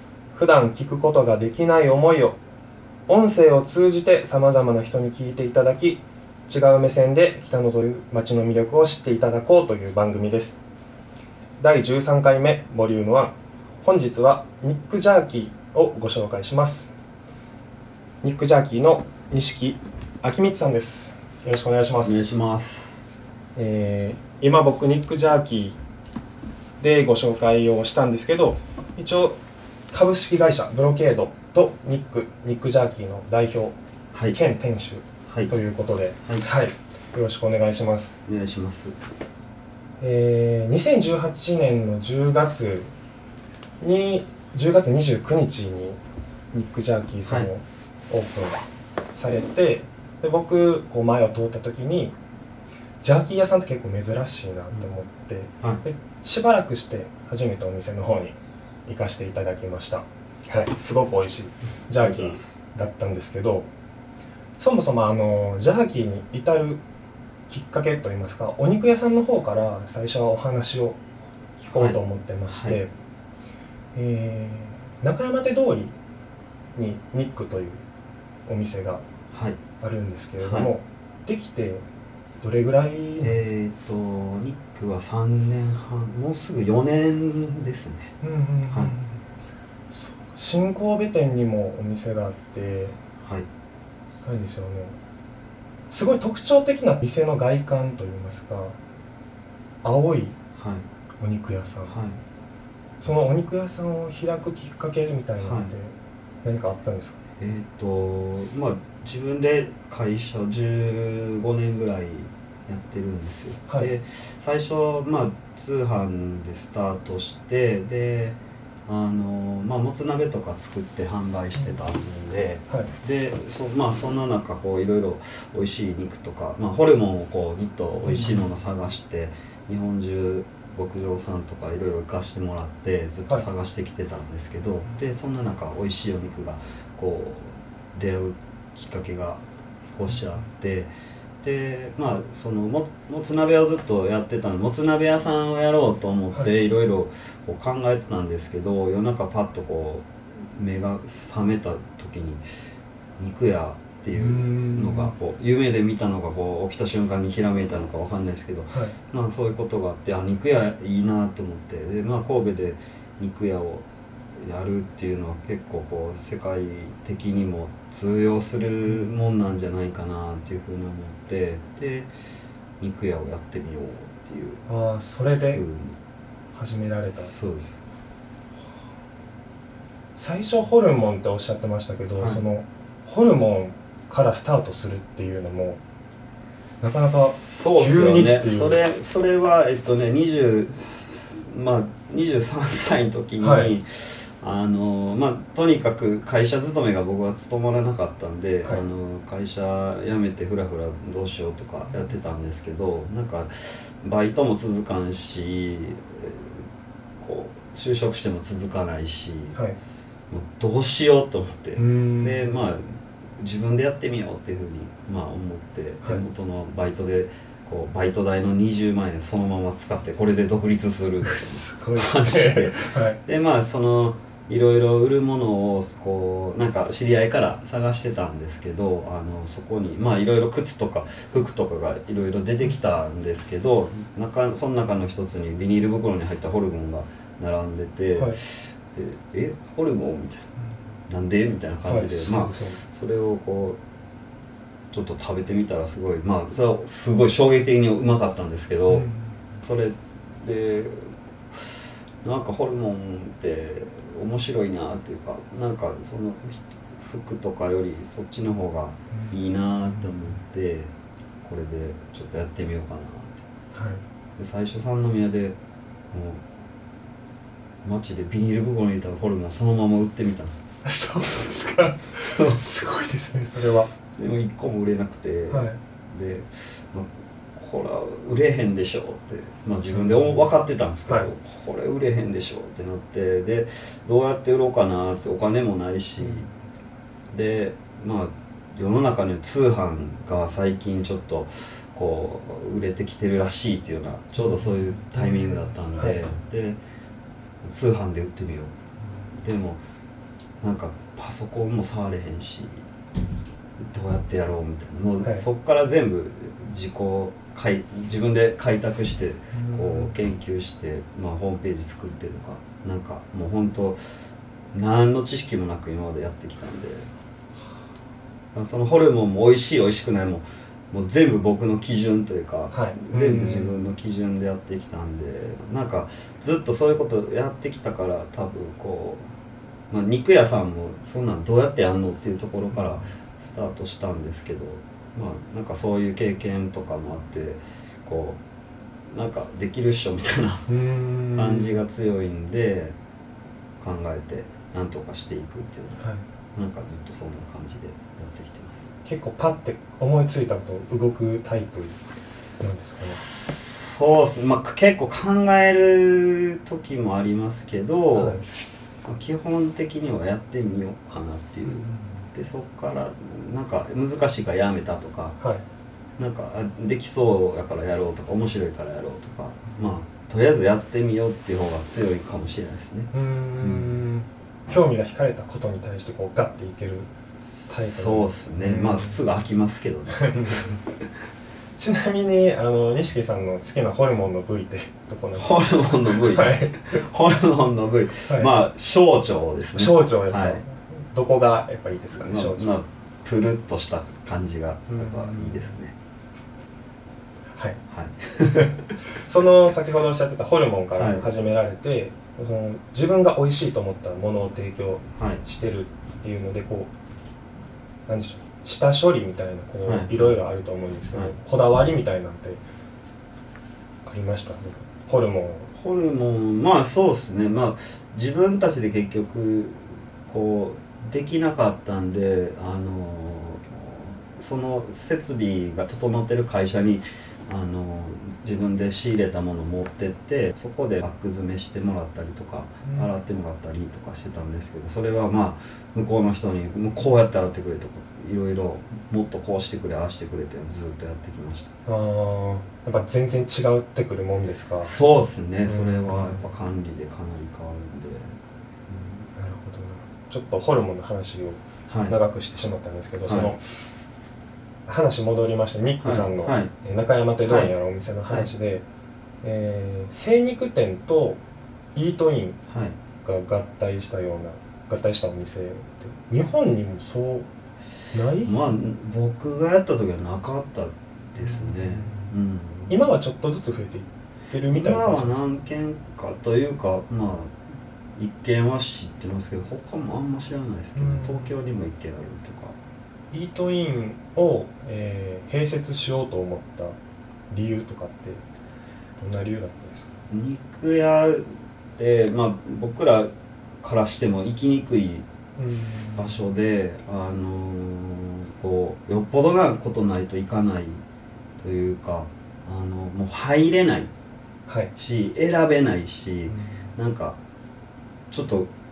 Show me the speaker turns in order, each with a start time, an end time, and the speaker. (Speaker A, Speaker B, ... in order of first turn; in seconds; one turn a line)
Speaker A: 0.3-2.4
Speaker A: 3.1-10.6
Speaker A: 11.6-16.9
Speaker A: 18.2-22.2
Speaker B: 22.0-23.0
Speaker A: 23.6-25.8
Speaker A: 26.8-29.4
Speaker A: 29.9-33.7
Speaker A: 34.3-38.1
Speaker B: 35.3-35.5
Speaker B: 38.2-38.9
Speaker A: 40.0-42.9
Speaker A: 43.8-46.0
Speaker A: 46.5-48.6
Speaker A: 49.1-52.1
Speaker A: 53.0-63.7
Speaker B: 62.0-62.6
Speaker A: 64.6-66.8
Speaker A: 67.5-71.0
Speaker A: 71.6-72.9
Speaker B: 71.7-72.0
Speaker B: 72.5-72.8
Speaker A: 74.0-76.0
Speaker A: 76.8-77.8
Speaker A: 78.5-79.0
Speaker B: 79.3-79.6
Speaker A: 79.8-81.8
Speaker B: 80.4-80.7
Speaker A: 82.4-83.4
Speaker B: 83.2-88.1
Speaker A: 88.2-89.2
Speaker A: 89.9-93.0
Speaker B: 93.2-93.5
Speaker A: 94.2-95.0
Speaker A: 95.9-98.8
Speaker A: 99.8-100.4
Speaker B: 100.6-100.8
Speaker A: 101.2-102.0
Speaker B: 101.9-102.2
Speaker A: 103.0-107.2
Speaker B: 105.4-105.7
Speaker B: 107.4-140.9
Speaker A: 128.1-128.4
Speaker B: 141.4-152.4
Speaker B: 153.2-163.8
Speaker A: 154.1-155.1
Speaker B: 164.4-172.1
Speaker B: 172.8-174.6
Speaker A: 174.7-175.6
Speaker B: 175.5-176.0
Speaker A: 176.5-177.3
Speaker B: 177.2-177.8
Speaker A: 180.2-185.8
Speaker B: 182.2-182.4
Speaker A: 186.8-188.8
Speaker B: 186.9-206.7
Speaker A: 193.4-193.7
Speaker B: 207.2-209.6
Speaker B: 210.3-240.5
Speaker A: 211.8-212.6
Speaker A: 221.2-223.2
Speaker B: 241.1-243.8
Speaker A: 241.9-242.8
Speaker B: 244.9-249.1
Speaker A: 248.9-249.4
Speaker B: 249.6-251.1
Speaker B: 252.2-260.9
Speaker A: 259.1-259.4
Speaker B: 261.4-263.4
Speaker A: 263.7-264.0
Speaker B: 264.4-265.6
Speaker B: 266.1-266.4
Speaker B: 267.8-270.6
Speaker A: 270.8-273.9
Speaker B: 274.1-286.5
Speaker A: 275.5-275.8
Speaker A: 279.9-280.4
Speaker B: 287.3-296.8
Speaker A: 294.4-296.2
Speaker B: 297.6-298.7
Speaker B: 299.4-299.8
Speaker B: 300.6-302.8
Speaker B: 303.8-314.0
Speaker A: 309.5-310.1
Speaker B: 314.7-317.1
Speaker B: 318.5-329.2
Speaker A: 322.7-323.8
Speaker B: 329.9-338.4
Speaker B: 339.1-340.7
Speaker A: 340.7-341.8
Speaker B: 341.3-342.9
Speaker B: 343.8-346.0
Speaker B: 346.6-348.9
Speaker A: 349.1-352.0
Speaker A: 352.6-353.2
Speaker B: 353.0-358.4
Speaker A: 358.1-358.4
Speaker B: 359.1-365.4
Speaker A: 361.7-362.1
Speaker A: 365.4-365.6
Speaker B: 366.2-374.0
Speaker A: 373.1-377.1
Speaker B: 377.4-380.7
Speaker A: 377.7-379.2
Speaker A: 380.2-380.8
Speaker A: 381.8-387.0
Speaker B: 385.4-390.6
Speaker A: 389.8-392.7
Speaker B: 392.1-395.9
Speaker A: 394.9-395.8
Speaker B: 397.9-398.8
Speaker A: 398.6-406.9
Speaker B: 400.9-401.3
Speaker B: 405.2-405.4
Speaker A: 408.1-412.6
Speaker B: 409.8-410.3
Speaker A: 414.1-415.7
Speaker B: 415.7-441.7
Speaker A: 432.8-433.1
Speaker A: 441.9-444.9
Speaker B: 444.8-448.4
Speaker A: 445.7-446.4
Speaker B: 448.9-449.3
Speaker A: 449.4-453.6
Speaker B: 451.9-452.1
Speaker B: 453.3-453.5
Speaker A: 454.9-458.8
Speaker B: 456.0-456.7
Speaker B: 457.4-457.7
Speaker A: 459.4-461.4
Speaker A: 461.9-462.6
Speaker B: 462.7-462.9
Speaker A: 463.2-467.5
Speaker A: 468.1-468.5
Speaker B: 468.4-473.1
Speaker A: 471.4-472.3
Speaker A: 472.9-475.4
Speaker B: 474.7-477.6
Speaker B: 478.2-482.8
Speaker A: 480.9-481.6
Speaker A: 483.3-487.0
Speaker A: 487.5-488.4
Speaker A: 489.2-490.1
Speaker B: 490.3-491.4
Speaker B: 492.0-495.2
Speaker A: 495.6-496.4
Speaker B: 496.1-501.0
Speaker B: 501.6-504.1
Speaker A: 504.7-504.9
Speaker B: 504.9-507.4
Speaker A: 506.5-506.7
Speaker B: 508.3-508.7